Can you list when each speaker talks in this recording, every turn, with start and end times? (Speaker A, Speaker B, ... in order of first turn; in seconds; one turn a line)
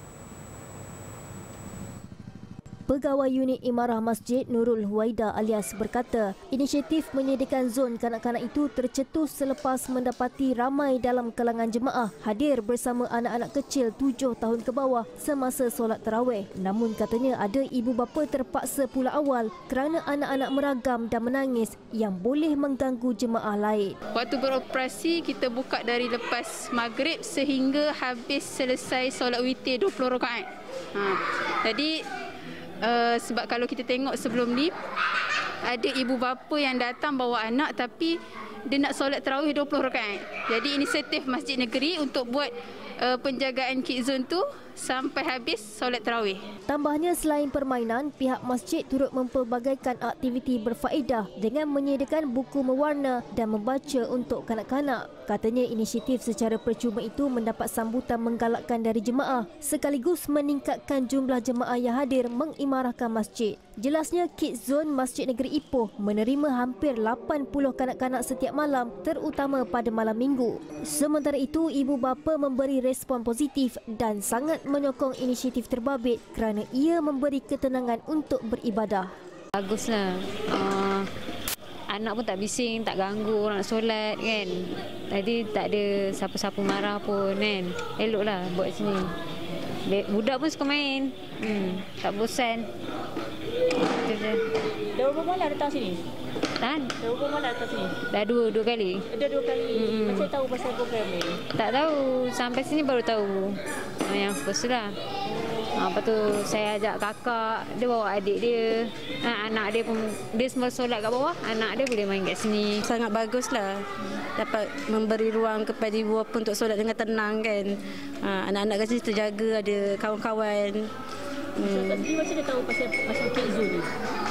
Speaker A: 2.9-23.9
Speaker B: 24.1-32.0
Speaker B: 32.8-34.7
Speaker B: 35.6-38.2
Speaker B: 38.7-46.4
Speaker A: 46.7-79.1
Speaker C: 79.5-81.1
Speaker C: 81.9-89.1
Speaker C: 89.8-92.7
Speaker C: 93.8-94.5
Speaker D: 94.9-96.0
Speaker C: 96.6-96.9
Speaker D: 97.0-98.0
Speaker C: 98.0-99.1
Speaker D: 99.1-101.4
Speaker C: 99.7-100.3
Speaker C: 101.5-104.9
Speaker C: 105.5-112.8
Speaker E: 112.8-120.9
Speaker E: 121.5-122.1
Speaker D: 121.7-123.9